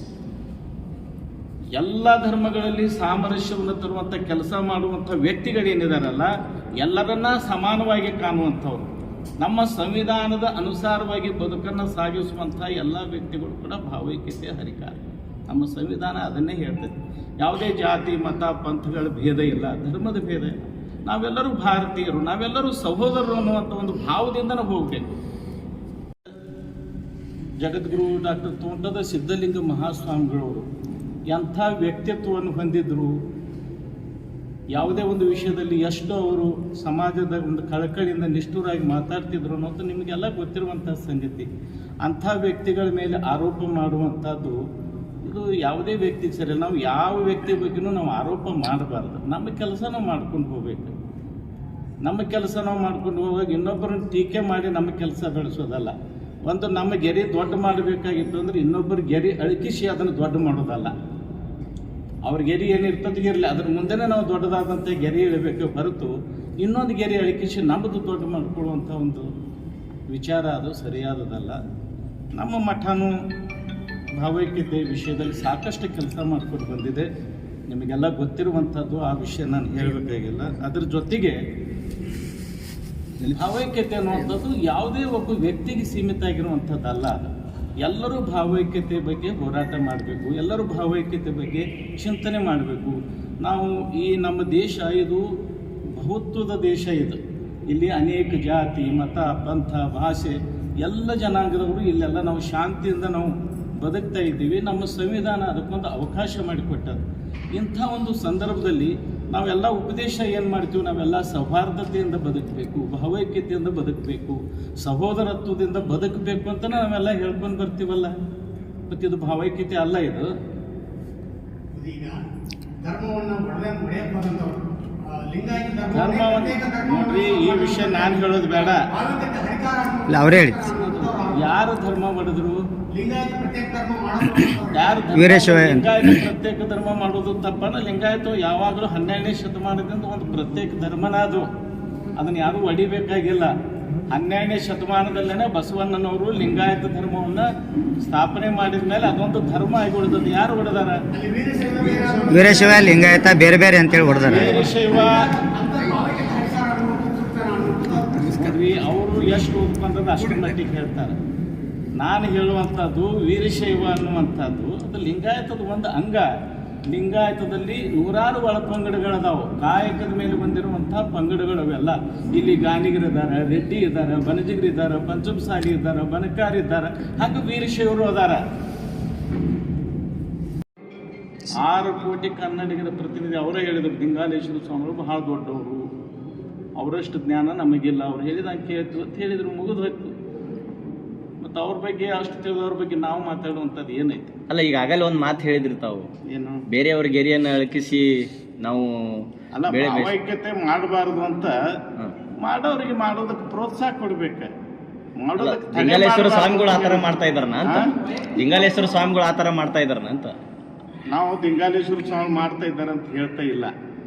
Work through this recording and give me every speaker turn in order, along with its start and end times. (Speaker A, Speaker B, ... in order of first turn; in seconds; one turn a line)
Speaker A: 1.8-25.1
Speaker A: 27.6-30.7
Speaker A: 31.3-33.1
Speaker A: 34.7-41.5
Speaker A: 42.0-44.6
Speaker A: 45.2-50.9
Speaker A: 52.0-55.9
Speaker A: 56.5-60.9
Speaker A: 62.2-69.3
Speaker A: 70.1-71.6
Speaker A: 72.3-73.1
Speaker A: 74.2-77.1
Speaker A: 77.7-81.4
Speaker A: 83.4-87.3
Speaker A: 87.8-95.2
Speaker A: 96.0-118.1
Speaker A: 118.9-120.3
Speaker B: 121.7-122.2
Speaker B: 122.8-131.5
Speaker A: 125.9-128.9
Speaker C: 130.1-130.7
Speaker A: 130.9-132.6
Speaker B: 132.9-135.2
Speaker A: 134.7-141.5
Speaker C: 135.1-136.2
Speaker A: 142.2-143.5
Speaker A: 144.1-147.5
Speaker A: 148.0-151.0
Speaker B: 151.1-153.3
Speaker C: 152.3-154.7
Speaker B: 154.0-158.4
Speaker A: 154.3-155.3
Speaker A: 158.3-161.2
Speaker A: 162.0-166.3
Speaker A: 166.9-178.4
Speaker A: 181.5-185.9
Speaker A: 186.8-190.2
Speaker A: 191.4-194.3
Speaker D: 194.5-196.1
Speaker A: 196.3-196.7
Speaker D: 196.7-200.1
Speaker A: 199.6-201.6
Speaker A: 202.4-204.5
Speaker A: 205.2-207.1
Speaker D: 205.4-210.3
Speaker A: 207.7-208.0
Speaker A: 211.1-213.7